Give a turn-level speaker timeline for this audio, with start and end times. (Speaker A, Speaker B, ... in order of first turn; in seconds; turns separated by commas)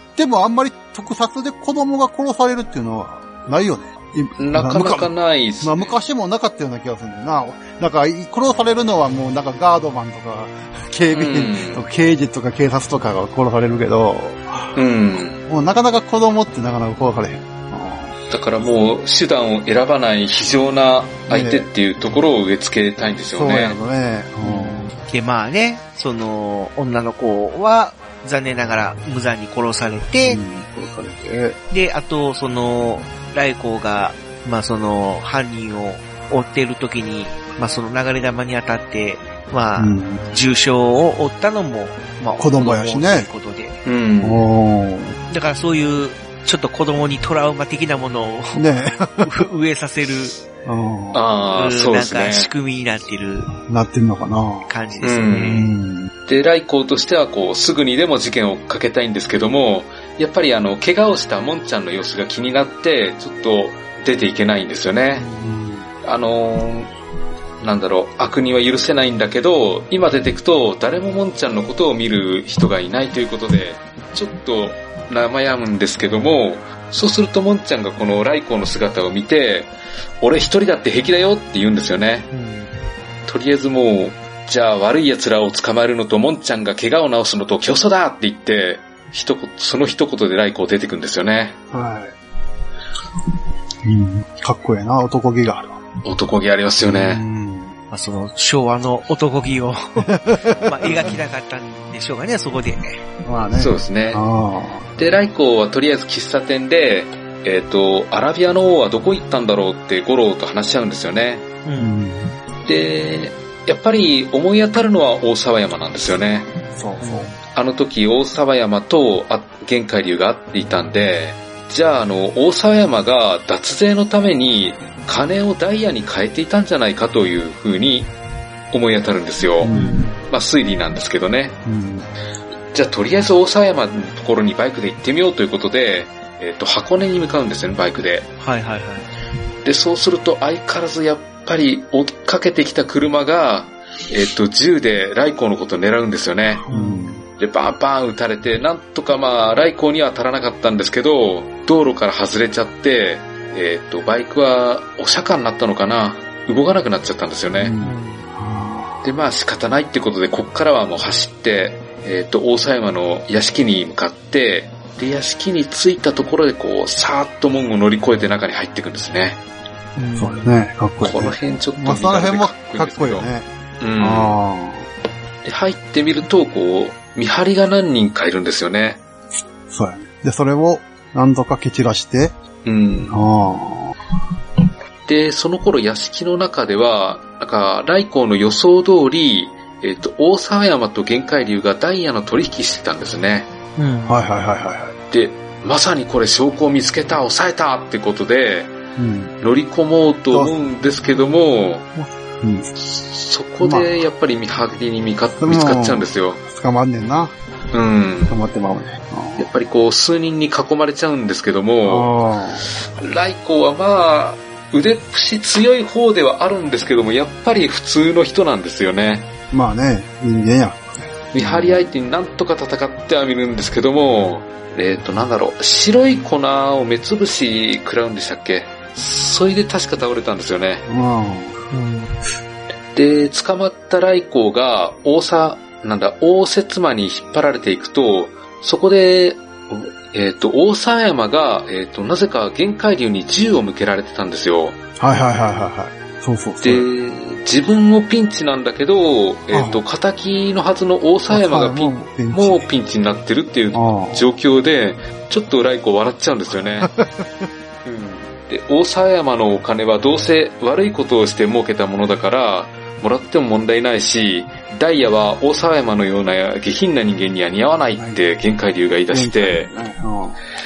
Speaker A: 0.2-14.8, Speaker B: 4.4-6.0, Speaker B: 11.1-11.9, Speaker B: 14.8-15.4, Speaker A: 15.4-18.2, Speaker B: 18.3-23.8, Speaker A: 21.3-21.7, Speaker A: 23.3-24.9, Speaker C: 25.0-30.4, Speaker A: 30.2-31.6, Speaker C: 31.7-43.8, Speaker A: 39.8-40.2, Speaker A: 42.4-43.3, Speaker B: 43.9-44.5, Speaker A: 44.2-45.2, Speaker C: 45.3-48.6, Speaker A: 48.5-49.5, Speaker C: 49.2-50.3, Speaker A: 50.6-51.2, Speaker B: 51.1-52.5, Speaker C: 51.5-53.5, Speaker A: 53.7-54.7, Speaker C: 54.7-55.7, Speaker B: 55.0-55.7, Speaker A: 55.5-56.1, Speaker B: 56.3-65.3, Speaker A: 65.2-65.9, Speaker B: 66.0-66.9, Speaker B: 67.6-82.3, Speaker C: 82.3-82.7, Speaker B: 83.3-91.6, Speaker A: 91.7-92.2, Speaker A: 93.8-95.8, Speaker B: 96.0-97.2, Speaker A: 96.8-97.7, Speaker C: 97.9-103.0, Speaker A: 100.0-101.2, Speaker B: 100.9-101.2, Speaker A: 103.2-105.0, Speaker B: 103.6-104.2, Speaker B: 105.0-111.5, Speaker C: 111.7-111.9, Speaker A: 111.8-112.4, Speaker B: 112.7-116.5, Speaker A: 116.7-117.3, Speaker C: 117.0-117.4, Speaker B: 117.5-128.1, Speaker B: 128.7-129.7, Speaker A: 129.6-130.1, Speaker C: 129.7-130.2, Speaker B: 130.2-131.6, Speaker A: 131.7-132.1, Speaker B: 132.7-138.3, Speaker C: 138.4-139.1, Speaker B: 139.6-146.7, Speaker A: 146.7-147.2, Speaker C: 146.7-147.2, Speaker B: 147.4-157.8, Speaker A: 157.6-159.0, Speaker C: 157.8-158.3, Speaker B: 159.0-169.4, Speaker C: 170.0-170.6, Speaker A: 170.2-173.5, Speaker B: 171.0-174.4, Speaker A: 174.0-174.9, Speaker B: 175.4-179.0, Speaker A: 179.7-182.4, Speaker B: 182.7-183.2, Speaker A: 183.1-183.9, Speaker B: 185.1-193.5, Speaker C: 193.8-194.2, Speaker A: 194.1-194.9, Speaker B: 195.1-198.8, Speaker A: 199.0-199.3, Speaker B: 199.4-201.9, Speaker A: 200.3-200.6, Speaker A: 202.0-202.7, Speaker B: 202.8-206.4, Speaker A: 203.6-204.0, Speaker A: 205.4-207.3, Speaker B: 207.7-208.4, Speaker A: 208.3-209.5, Speaker B: 209.4-212.1, Speaker A: 211.8-212.7, Speaker B: 212.9-219.3, Speaker A: 219.5-221.9, Speaker B: 221.3-230.8, Speaker A: 230.9-231.6, Speaker C: 231.7-232.1, Speaker B: 232.9-244.8, Speaker A: 245.0-246.9, Speaker B: 246.6-256.9, Speaker A: 249.5-249.8, Speaker A: 251.3-252.7, Speaker A: 253.7-254.3, Speaker A: 256.5-257.5, Speaker B: 257.9-269.7, Speaker A: 269.1-270.4